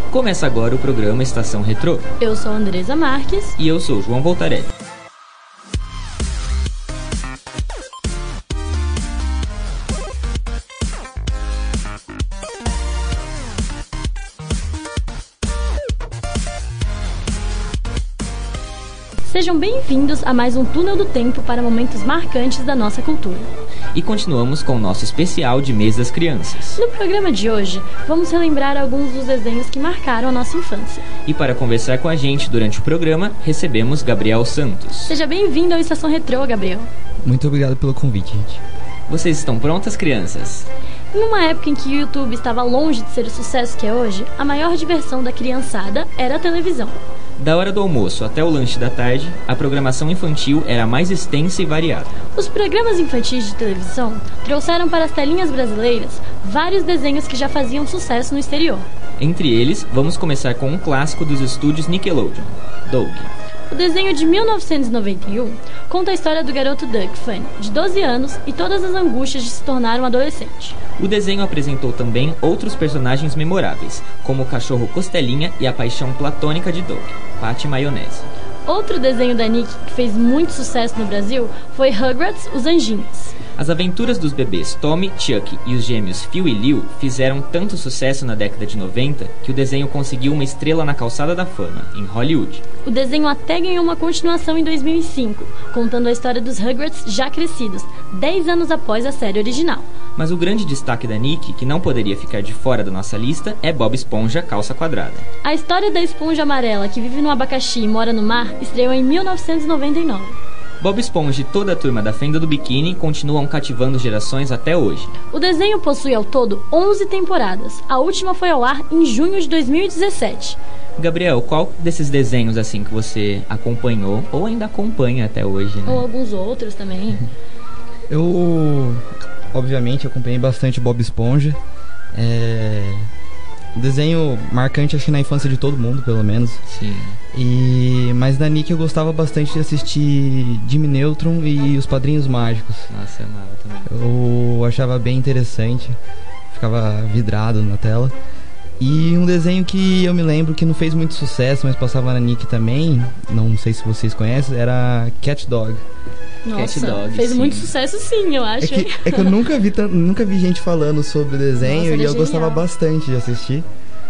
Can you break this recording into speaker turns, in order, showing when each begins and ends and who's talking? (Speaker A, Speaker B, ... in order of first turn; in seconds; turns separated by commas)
Speaker A: 0.1-2.1, Speaker B: 2.2-3.5, Speaker A: 3.6-4.7, Speaker B: 19.3-23.5, Speaker A: 23.9-26.8, Speaker B: 26.8-31.1, Speaker A: 31.2-35.1, Speaker B: 35.1-36.9, Speaker C: 37.2-38.6, Speaker A: 39.1-40.7, Speaker B: 41.1-47.0, Speaker A: 47.4-52.1, Speaker B: 52.3-58.9, Speaker A: 59.2-63.3, Speaker B: 63.7-70.8, Speaker A: 71.0-78.3, Speaker B: 78.7-83.3, Speaker A: 83.6-92.6, Speaker B: 92.8-99.9, Speaker A: 100.2-105.2, Speaker B: 105.4-110.4, Speaker A: 110.8-115.1, Speaker B: 115.3-120.6, Speaker A: 121.0-126.0, Speaker B: 125.8-127.2, Speaker C: 128.1-131.6, Speaker C: 132.1-133.1, Speaker C: 133.7-136.6, Speaker A: 136.7-137.2, Speaker C: 137.3-142.9, Speaker A: 142.9-143.9, Speaker C: 143.9-146.0, Speaker C: 146.5-148.1, Speaker C: 148.8-155.8, Speaker B: 156.4-159.3, Speaker A: 156.5-157.7, Speaker C: 158.6-163.7, Speaker B: 161.6-162.6